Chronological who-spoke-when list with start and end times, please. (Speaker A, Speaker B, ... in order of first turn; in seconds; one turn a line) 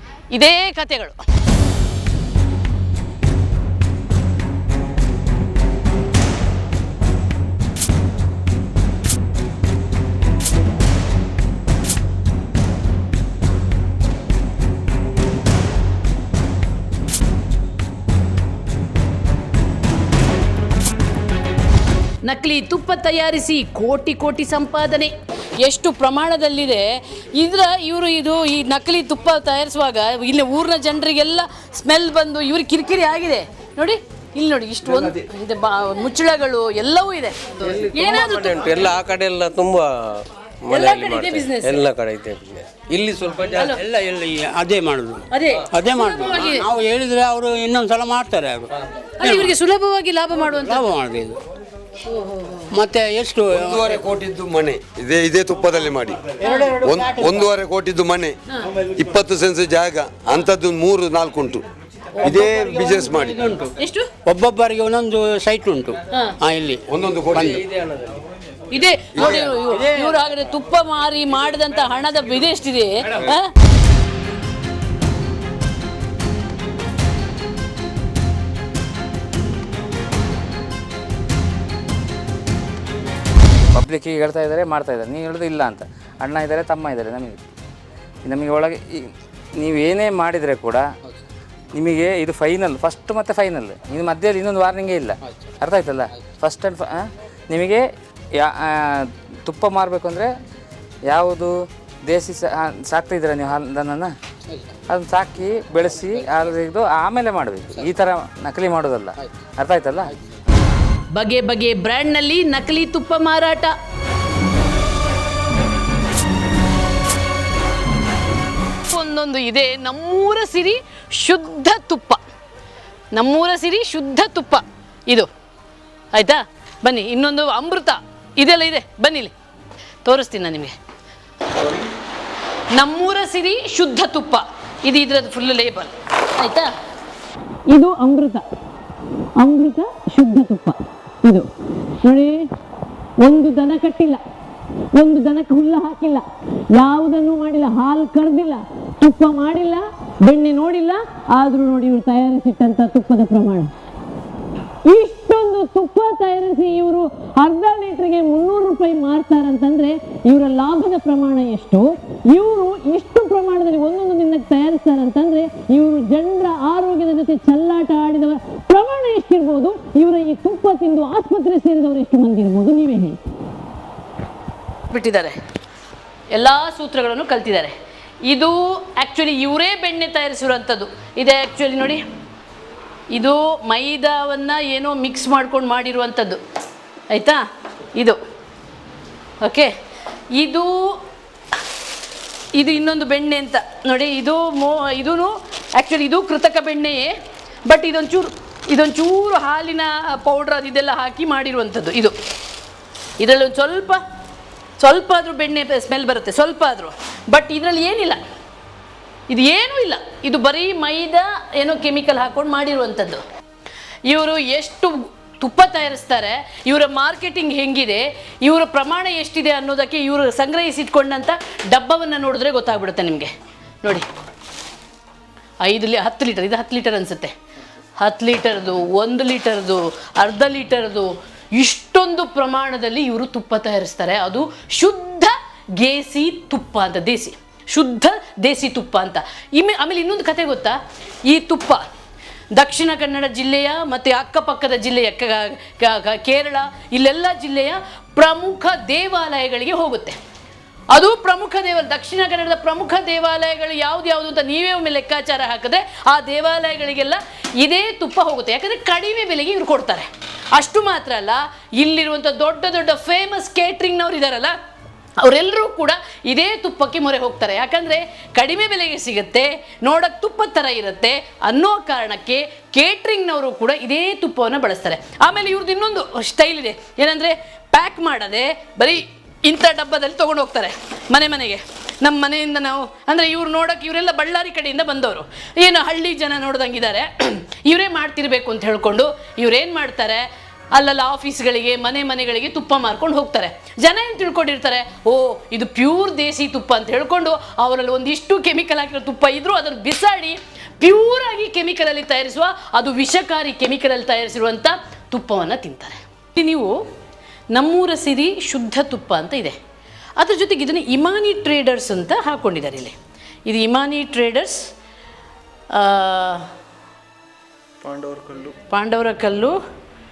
Speaker A: 0.3-1.2
Speaker A: 22.2-38.8
Speaker B: 37.6-43.7
Speaker A: 40.7-41.9
Speaker A: 43.5-43.8
Speaker C: 43.8-48.7
Speaker A: 45.3-46.7
Speaker A: 49.2-51.0
Speaker C: 49.3-49.5
Speaker C: 50.6-51.4
Speaker A: 52.0-52.7
Speaker C: 52.7-53.9
Speaker D: 53.5-58.4
Speaker A: 56.4-56.8
Speaker D: 58.9-61.6
Speaker D: 62.2-63.6
Speaker A: 63.8-64.1
Speaker C: 64.2-67.6
Speaker D: 66.9-67.7
Speaker A: 68.7-73.5
Speaker D: 69.2-69.5
Speaker C: 69.7-70.1
Speaker E: 83.7-87.4
Speaker E: 88.2-90.9
Speaker E: 91.8-100.3
Speaker E: 101.1-104.1
Speaker E: 104.9-110.1
Speaker A: 111.1-113.7
Speaker A: 118.9-122.2
Speaker A: 123.1-125.3
Speaker A: 126.1-129.3
Speaker A: 130.0-130.8
Speaker A: 132.7-136.7
Speaker A: 137.7-138.4
Speaker A: 139.4-141.5
Speaker A: 142.0-142.5
Speaker A: 143.2-144.2
Speaker A: 144.9-153.7
Speaker A: 154.8-173.2
Speaker A: 174.9-175.4
Speaker A: 176.3-177.7
Speaker A: 178.3-182.0
Speaker A: 183.1-186.4
Speaker A: 187.1-187.4
Speaker A: 189.4-189.7
Speaker A: 190.3-191.0
Speaker A: 192.5-197.1
Speaker A: 197.7-202.1
Speaker A: 203.2-204.0
Speaker A: 204.8-208.2
Speaker A: 209.3-213.2
Speaker A: 214.1-223.3
Speaker A: 225.6-227.3
Speaker A: 228.0-241.8
Speaker A: 242.5-250.2
Speaker A: 250.9-264.5
Speaker A: 265.2-306.8
Speaker A: 307.5-309.6
Speaker A: 310.2-312.9
Speaker A: 313.4-314.7
Speaker A: 315.7-316.5
Speaker A: 318.2-319.6